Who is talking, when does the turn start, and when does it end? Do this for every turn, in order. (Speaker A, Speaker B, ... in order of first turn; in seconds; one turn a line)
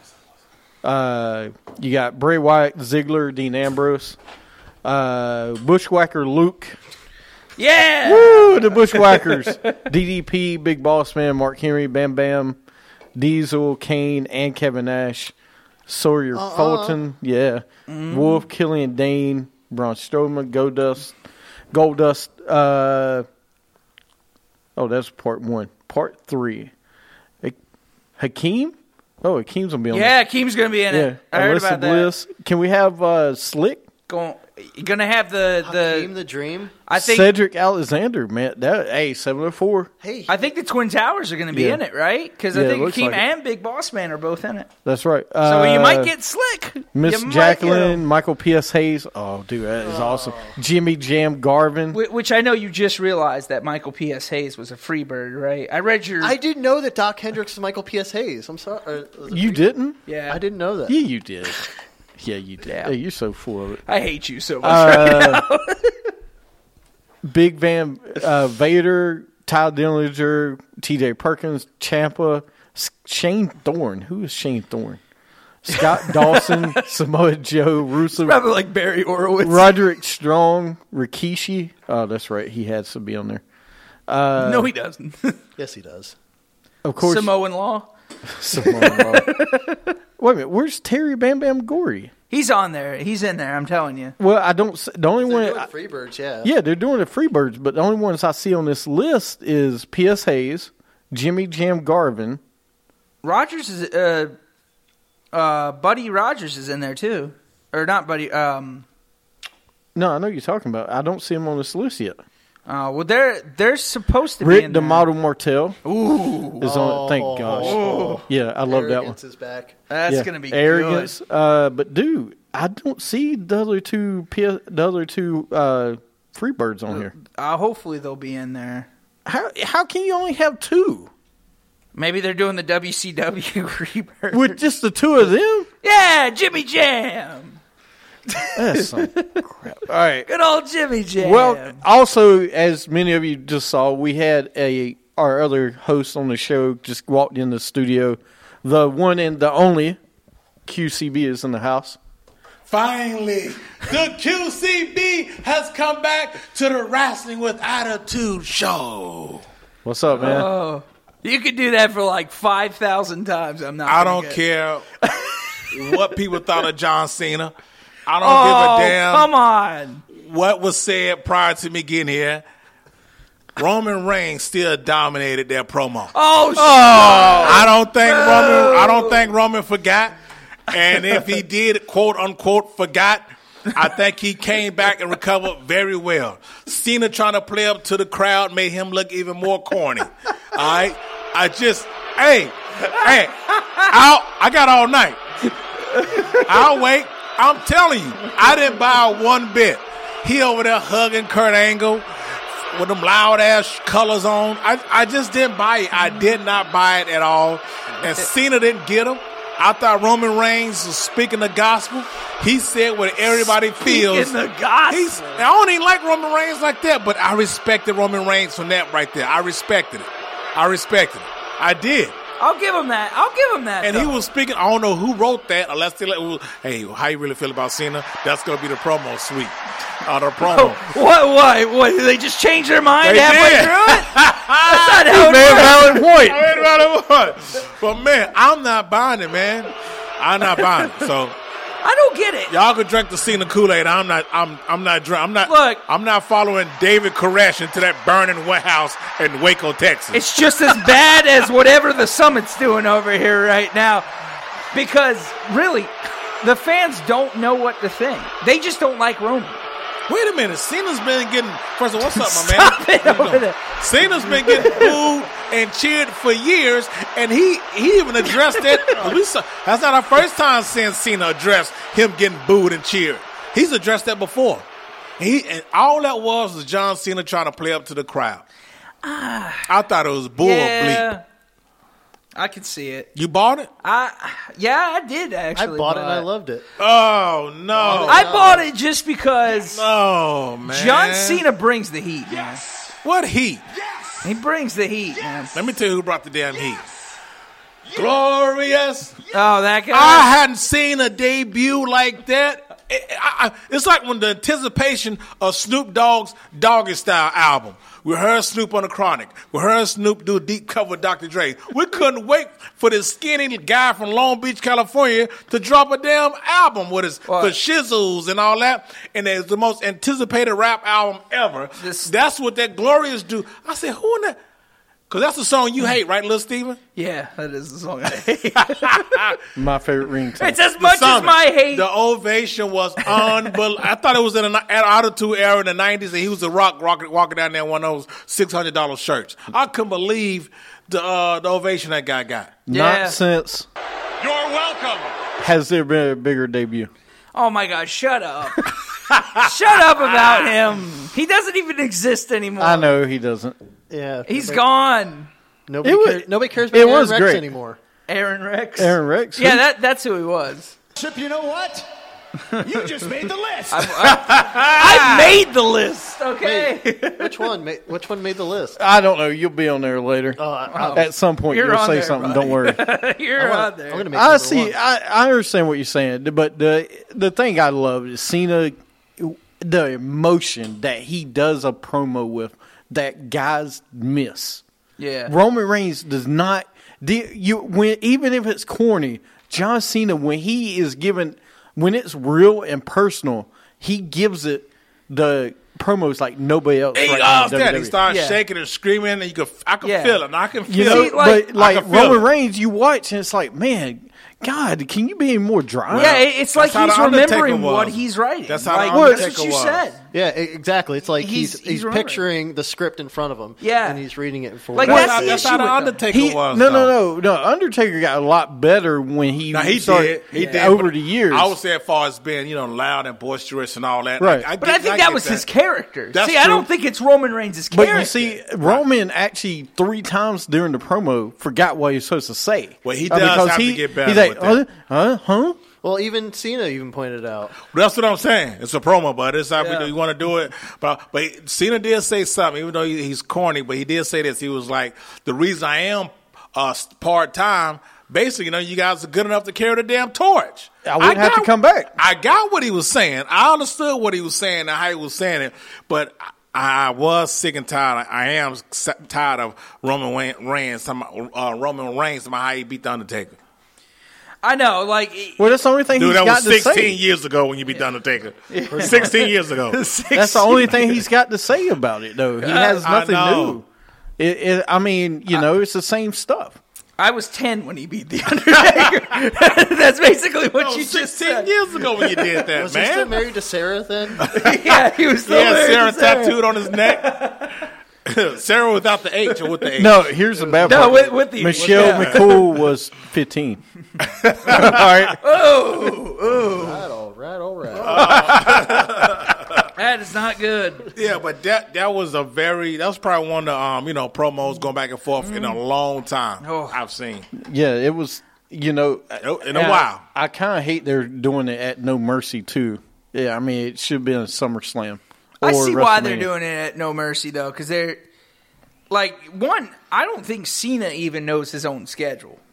Speaker A: 0.8-4.2
Speaker A: 4.8-6.8
Speaker B: 7.6-9.7
Speaker A: 8.0-12.6
Speaker A: 13.2-15.3
Speaker A: 15.9-21.1
Speaker C: 16.3-17.0
Speaker B: 17.9-18.4
Speaker A: 21.7-23.2
Speaker A: 24.8-26.7
Speaker A: 28.2-30.1
Speaker B: 29.9-32.1
Speaker A: 30.9-33.9
Speaker B: 34.1-36.1
Speaker C: 35.6-36.8
Speaker B: 36.9-37.3
Speaker A: 36.9-39.9
Speaker C: 40.0-40.4
Speaker B: 40.3-44.7
Speaker A: 41.5-41.8
Speaker A: 42.5-43.2
Speaker A: 44.8-46.1
Speaker B: 45.4-48.0
Speaker A: 46.9-52.0
Speaker C: 49.8-50.5
Speaker B: 51.9-56.4
Speaker C: 56.2-59.7
Speaker A: 59.3-60.0
Speaker B: 60.0-60.4
Speaker C: 60.3-61.0
Speaker A: 60.9-61.6
Speaker A: 62.2-63.8
Speaker B: 62.6-62.9
Speaker B: 63.9-66.0
Speaker A: 64.6-65.4
Speaker A: 67.2-75.0
Speaker A: 75.6-78.4
Speaker B: 75.7-76.8
Speaker B: 78.1-79.8
Speaker A: 79.4-83.4
Speaker A: 84.1-84.7
Speaker B: 84.4-85.4
Speaker C: 85.6-86.1
Speaker A: 86.8-87.3
Speaker B: 87.0-87.9
Speaker A: 88.3-92.1
Speaker B: 88.5-89.5
Speaker B: 92.3-94.2
Speaker A: 94.2-95.7
Speaker C: 95.2-96.5
Speaker A: 96.4-102.4
Speaker B: 103.2-104.3
Speaker B: 105.3-108.8
Speaker A: 109.9-112.2
Speaker B: 112.7-115.0
Speaker A: 114.4-115.8
Speaker B: 115.8-116.7
Speaker A: 116.6-119.2
Speaker C: 116.6-119.8
Speaker B: 117.5-118.2
Speaker B: 119.9-121.1
Speaker A: 120.1-127.1
Speaker B: 126.9-128.9
Speaker A: 129.2-131.1
Speaker B: 131.9-134.6
Speaker A: 134.3-135.7
Speaker B: 135.8-137.6
Speaker B: 138.3-139.4
Speaker A: 138.5-140.3
Speaker B: 140.2-141.8
Speaker A: 141.2-150.0
Speaker A: 150.7-152.0
Speaker D: 152.7-159.4
Speaker A: 159.8-160.5
Speaker B: 160.1-164.4
Speaker D: 163.8-164.9
Speaker B: 165.0-166.0
Speaker D: 165.7-167.5
Speaker D: 168.1-169.3
Speaker B: 168.2-170.0
Speaker D: 170.1-172.4
Speaker D: 173.6-176.1
Speaker B: 176.1-179.3
Speaker A: 176.6-177.6
Speaker D: 177.0-180.1
Speaker D: 180.7-195.2
Speaker B: 195.9-196.7
Speaker D: 196.1-202.1
Speaker D: 202.7-214.4
Speaker B: 213.8-215.4
Speaker D: 214.9-222.2
Speaker B: 222.4-224.2
Speaker D: 223.8-230.8
Speaker B: 230.4-236.0
Speaker D: 233.0-241.4
Speaker A: 235.0-236.5
Speaker B: 241.8-242.5
Speaker D: 242.5-250.9
Speaker B: 245.4-245.8
Speaker B: 250.1-254.1
Speaker B: 254.7-259.6
Speaker D: 260.1-274.6
Speaker B: 262.1-263.8
Speaker B: 264.4-265.0
Speaker B: 268.4-268.8
Speaker D: 275.2-278.4
Speaker B: 279.0-279.7
Speaker D: 279.7-281.1
Speaker B: 280.4-281.2
Speaker B: 282.3-283.1
Speaker D: 283.1-283.7
Speaker B: 283.8-286.2
Speaker C: 285.6-286.6
Speaker D: 286.8-288.3
Speaker C: 287.7-288.7
Speaker B: 288.0-289.8
Speaker D: 289.5-291.4
Speaker B: 290.6-292.6
Speaker E: 292.3-292.9
Speaker D: 293.0-293.6
Speaker E: 293.8-294.3
Speaker B: 294.2-295.6
Speaker D: 295.5-296.8
Speaker D: 297.9-299.2
Speaker B: 299.3-300.3
Speaker D: 299.9-324.4
Speaker B: 317.2-317.5
Speaker B: 321.8-322.1
Speaker D: 325.1-326.8
Speaker B: 326.9-329.3
Speaker D: 328.7-329.4
Speaker A: 329.5-330.6
Speaker B: 330.4-331.9
Speaker D: 330.8-342.6
Speaker A: 342.7-343.7
Speaker B: 342.7-343.2
Speaker D: 344.2-345.1
Speaker E: 344.2-344.6
Speaker A: 345.4-346.9
Speaker B: 347.3-348.7
Speaker D: 349.1-350.5
Speaker B: 349.3-352.9
Speaker A: 352.6-353.6
Speaker C: 353.9-354.6
Speaker B: 354.3-355.3
Speaker C: 355.7-357.8
Speaker A: 355.8-357.5
Speaker B: 358.1-360.8
Speaker A: 358.8-359.6
Speaker E: 360.9-361.9
Speaker E: 362.5-364.2
Speaker B: 363.7-367.5
Speaker D: 364.0-365.4
Speaker C: 366.4-368.8
Speaker A: 368.8-370.4
Speaker C: 370.4-371.1
Speaker B: 370.7-374.1
Speaker A: 370.9-372.9
Speaker C: 373.4-374.8
Speaker A: 374.1-384.6
Speaker B: 385.0-385.3
Speaker A: 385.3-397.9
Speaker D: 396.9-402.2
Speaker B: 398.1-398.4
Speaker B: 399.8-400.2
Speaker A: 400.7-406.2
Speaker B: 400.8-401.4
Speaker D: 405.9-409.8
Speaker B: 405.9-410.0
Speaker A: 408.9-409.2
Speaker C: 410.1-415.5
Speaker B: 411.2-412.2
Speaker B: 413.6-414.0
Speaker B: 414.7-416.0
Speaker D: 414.8-416.9
Speaker A: 416.1-421.6
Speaker D: 419.5-425.4
Speaker B: 420.3-420.7
Speaker A: 424.2-424.5
Speaker B: 424.6-428.3
Speaker D: 426.1-426.7
Speaker A: 427.7-435.6
Speaker D: 427.9-428.8
Speaker D: 432.8-434.6
Speaker C: 435.8-437.6
Speaker D: 437.6-463.4
Speaker B: 439.6-439.9
Speaker A: 450.8-451.9
Speaker B: 464.4-465.6
Speaker A: 465.4-467.0
Speaker D: 465.9-469.8
Speaker B: 468.5-471.0
Speaker C: 468.7-469.3
Speaker A: 470.1-473.6
Speaker B: 472.4-472.8
Speaker D: 472.7-473.6
Speaker A: 474.2-476.6
Speaker B: 477.0-482.5
Speaker D: 480.6-483.2
Speaker C: 482.5-484.3
Speaker D: 484.2-487.5
Speaker B: 484.2-487.6
Speaker D: 488.0-490.0
Speaker A: 489.8-493.6
Speaker C: 490.3-491.1
Speaker B: 490.6-492.4
Speaker D: 491.7-492.3
Speaker D: 494.0-495.0
Speaker A: 494.4-495.2
Speaker B: 495.2-496.9
Speaker C: 496.3-498.7
Speaker D: 497.8-499.7
Speaker B: 499.7-500.9
Speaker D: 500.9-507.3
Speaker B: 505.2-505.6
Speaker B: 506.4-506.8
Speaker A: 507.3-516.3
Speaker D: 509.2-510.0
Speaker B: 515.4-518.0
Speaker B: 518.9-522.4